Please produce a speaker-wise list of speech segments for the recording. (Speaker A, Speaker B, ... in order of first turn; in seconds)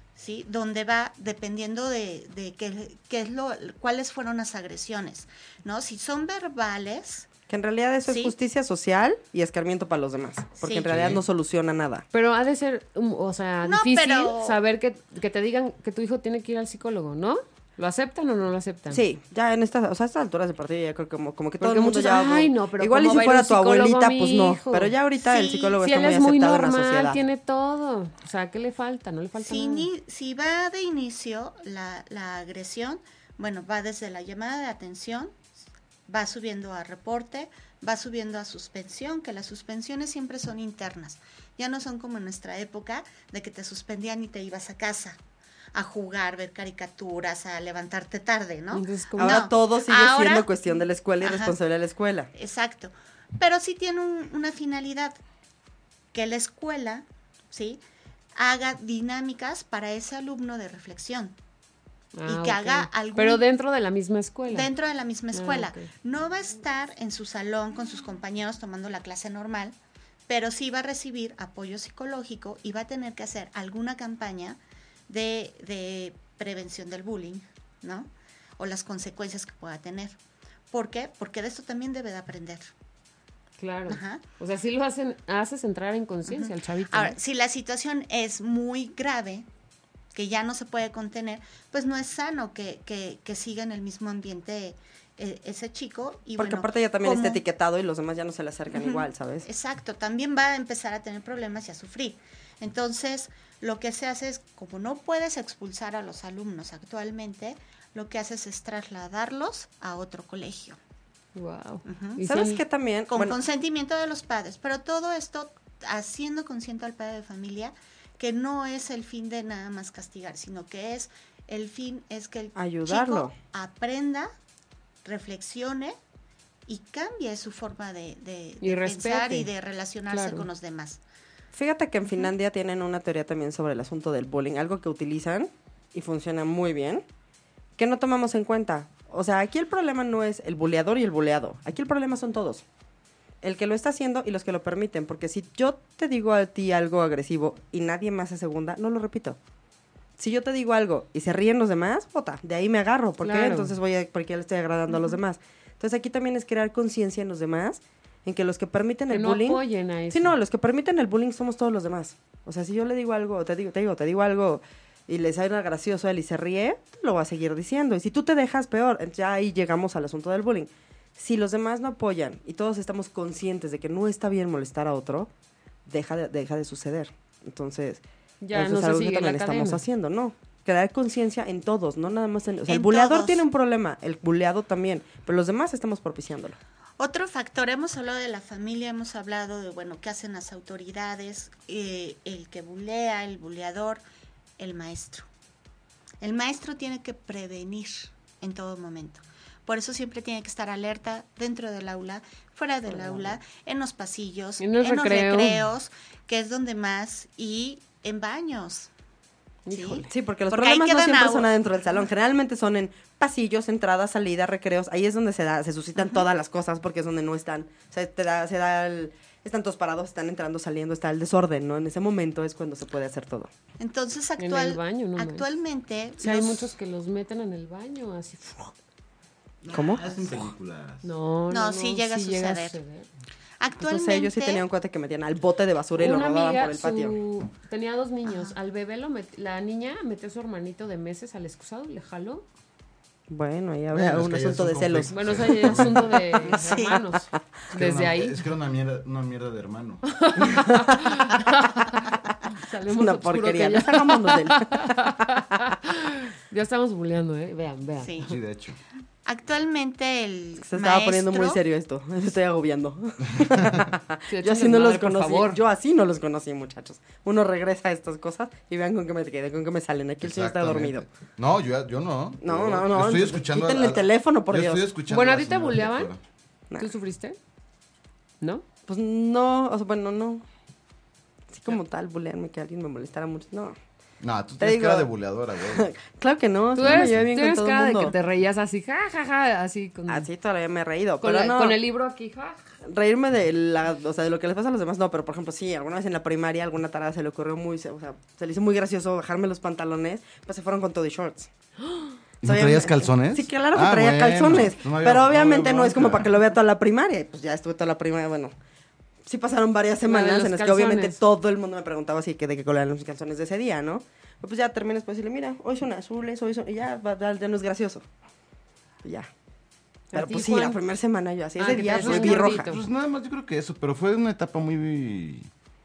Speaker A: 0.1-7.3, 8.0-8.3, 10.6-10.9, 13.6-14.6, 25.2-25.8, 29.4-35.4, 36.1-45.2, 45.7-50.5, 51.2-51.5, 52.3-55.2, 56.1-57.8, 58.4-61.4, 62.2-63.4, 64.5-69.8, 70.3-80.2, 80.7-82.7, 83.9-84.2, 86.3-89.5, 90.1-97.4, 98.7-110.8, 111.9-112.2, 113.1-124.3, 125.0-126.0, 126.7-131.0, 182.7-183.4, 187.0-194.0, 194.6-195.3, 196.2-208.9, 209.7-211.5, 216.0-216.2, 223.8-226.7, 231.5-232.8, 233.6-234.6, 238.3-238.5, 246.6-246.9, 258.0-258.3, 259.2-261.6
Speaker B: 7.5-12.0, 18.9-27.2, 49.2-52.3, 96.4-99.5, 112.2-113.4, 122.5-123.3, 131.5-137.0, 137.8-142.6, 143.4-149.4, 150.2-175.3, 175.8-178.0, 178.5-186.6, 202.9-203.3, 210.1-223.5, 229.7-230.0, 233.8-237.2, 243.3-245.8, 250.5-250.8, 252.9-255.2, 260.6-271.0, 272.4-274.9, 278.9-280.4, 281.5-283.8, 284.6-285.1, 285.7-288.1, 290.1-291.8, 292.8-301.5, 302.4-308.5, 309.2-318.1, 319.0-319.3, 320.1-322.7
Speaker C: 10.8-11.2, 229.6-231.0, 243.9-246.4, 247.7-250.0, 258.2-258.8, 263.3-263.9, 270.2-276.2, 284.2-285.9, 286.8-287.3, 302.4-306.3, 321.8-325.5
Speaker D: 12.1-19.0, 21.6-24.9, 25.8-29.9, 48.7-49.5, 62.1-64.7, 65.3-65.9, 83.6-87.2, 111.3-112.6, 128.6-129.5, 130.1-130.5, 153.2-153.7, 159.1-160.3, 178.4-179.8, 204.6-205.6, 209.7-210.0, 224.4-225.4, 226.2-228.7, 231.0-233.1, 236.0-242.4, 245.1-248.4, 250.2-258.2, 264.3-265.6, 275.1-276.1, 276.8-277.4, 286.7-290.2, 291.2-292.6, 310.1-311.2, 320.1-320.8, 321.6-322.8